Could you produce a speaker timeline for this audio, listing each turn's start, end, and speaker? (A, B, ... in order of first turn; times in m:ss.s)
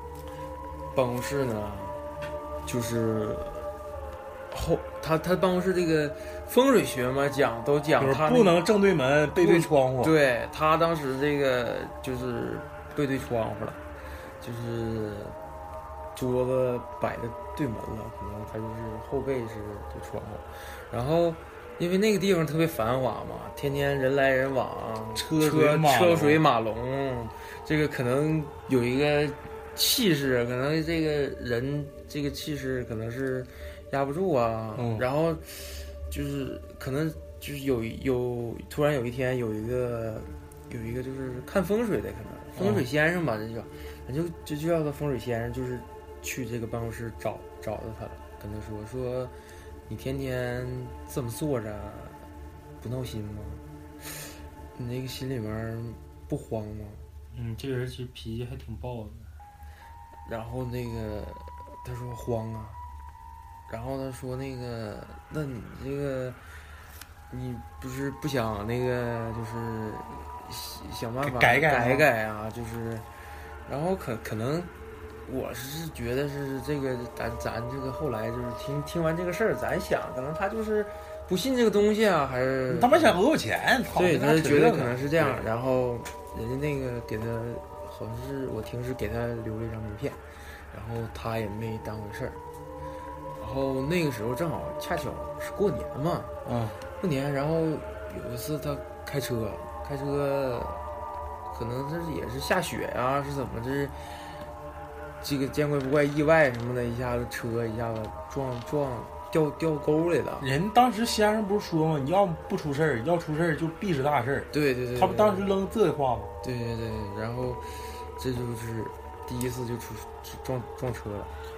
0:00.9-0:02.0 A
0:02.7-0:03.7 A
0:04.5-0:08.6 A
0:08.0-0:10.2 B
0:09.4-0:13.8 A
0:14.4-0:15.4 A
0:16.1-0:49.3 A
0:25.2-0:26.4 B
0:34.8-0:35.0 B
0:42.6-0:42.9 B
0:49.9-0:52.2 A
0:52.8-0:54.0 A
0:54.8-0:57.1 A
0:57.3-0:59.3 C
1:00.3-1:02.8 A
1:03.7-1:06.4 A
1:07.3-1:13.1 A
1:11.2-1:12.1 B
1:13.7-1:14.7 A
1:15.3-1:23.2 A
1:22.7-1:25.5 B
1:23.9-1:30.2 A
1:30.7-1:32.4 A
1:33.4-1:36.3 A
1:36.4-1:36.8 B
1:37.0-1:40.8 A
1:41.5-1:44.3 A
1:45.2-1:50.5 A
1:50.4-1:56.4 B
1:54.5-1:55.5 A
1:56.4-2:01.3 A